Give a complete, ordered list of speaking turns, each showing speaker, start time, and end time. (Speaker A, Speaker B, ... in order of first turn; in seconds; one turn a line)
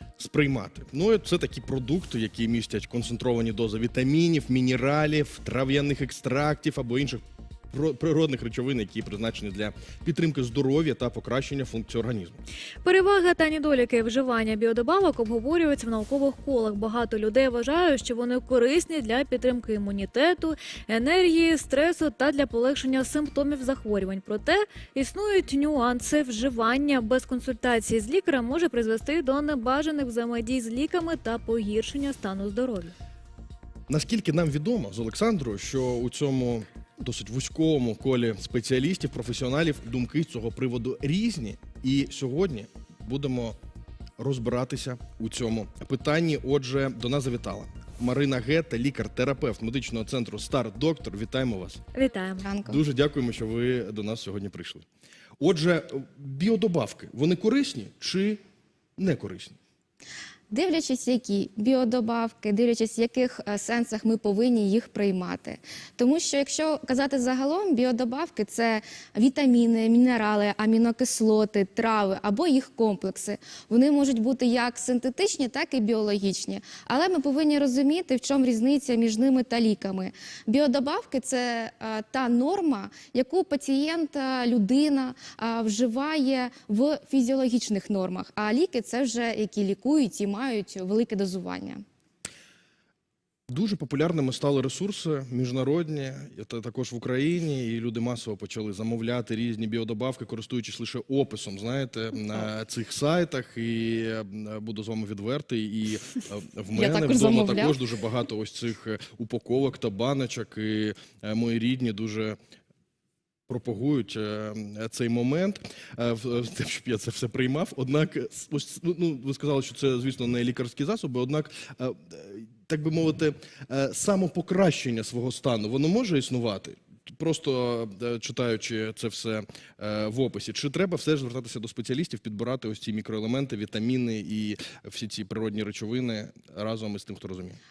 Speaker A: 0.2-12.4
Speaker B: 12.8-32.9
Speaker A: 33.9-43.6
Speaker A: 44.2-51.8
Speaker B: 51.9-52.5
Speaker C: 52.4-52.8
Speaker A: 52.6-54.9
Speaker A: 55.4-58.4
Speaker A: 59.0-59.6
Speaker C: 60.5-91.8
Speaker A: 93.5-112.4
Speaker C: 106.7-107.8
Speaker A: 113.5-137.6